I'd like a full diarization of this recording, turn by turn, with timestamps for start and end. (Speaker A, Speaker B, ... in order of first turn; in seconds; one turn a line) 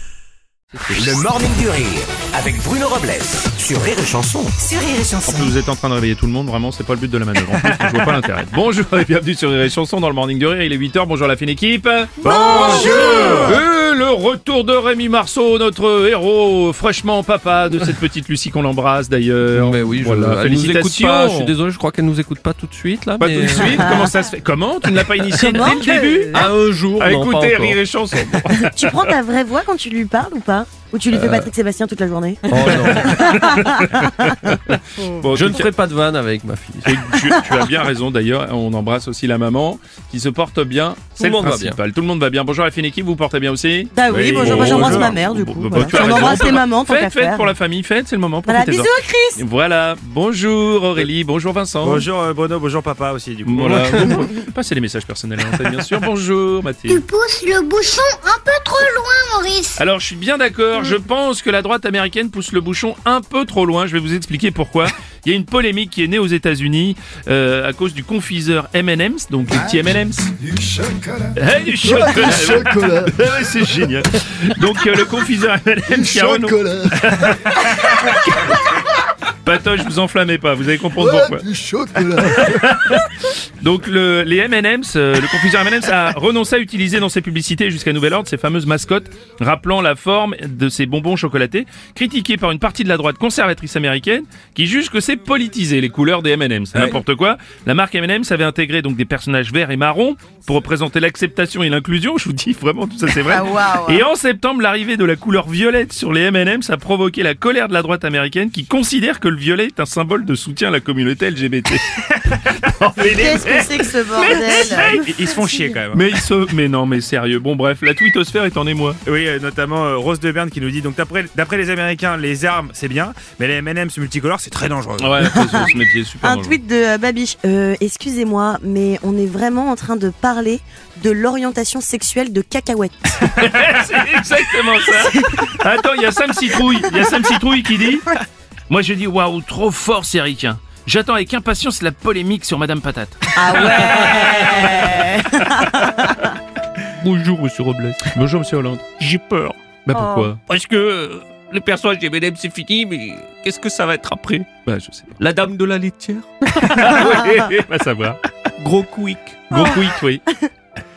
Speaker A: 0.8-1.2
Speaker B: 0.9-4.6
Speaker C: 4.7-5.0
Speaker A: 5.2-21.6
Speaker C: 7.7-8.0
Speaker C: 12.2-13.6
Speaker D: 12.3-13.3
Speaker E: 12.7-13.5
Speaker E: 19.5-24.1
Speaker A: 23.2-29.1
Speaker F: 23.8-24.1
Speaker E: 25.3-25.6
Speaker F: 25.4-26.5
Speaker E: 26.3-28.4
Speaker F: 28.5-34.6
Speaker E: 31.1-31.5
Speaker E: 32.5-33.5
Speaker A: 32.5-35.7
Speaker E: 35.2-37.0
Speaker A: 36.8-52.1
Speaker F: 37.2-37.6
Speaker E: 41.2-41.8
Speaker F: 43.9-47.5
Speaker C: 44.1-45.1
Speaker F: 48.5-49.4
Speaker C: 51.8-54.2
Speaker A: 53.4-57.0
Speaker G: 56.9-59.8
Speaker A: 59.8-70.3
Speaker D: 70.5-71.3
Speaker A: 71.4-78.7
Speaker D: 71.8-73.1
Speaker D: 76.0-77.0
Speaker A: 79.4-81.5
Speaker D: 81.1-82.5
Speaker A: 82.0-115.1
Speaker F: 103.3-104.1
Speaker F: 113.0-115.8
Speaker C: 114.7-116.0
Speaker A: 115.9-119.0
Speaker C: 119.0-125.3
Speaker A: 125.0-126.6
Speaker F: 125.2-133.3
Speaker A: 133.2-145.6
Speaker F: 135.1-135.5
Speaker F: 143.3-146.3
Speaker H: 147.0-148.1
Speaker A: 148.1-149.0
Speaker H: 149.0-149.6
Speaker A: 149.8-150.4
Speaker F: 149.9-150.4
Speaker H: 150.5-154.5
Speaker A: 154.7-155.2
Speaker E: 155.2-155.6
Speaker H: 155.3-156.3
Speaker A: 156.5-158.2
Speaker H: 158.6-159.5
Speaker A: 159.5-160.2
Speaker F: 159.5-160.5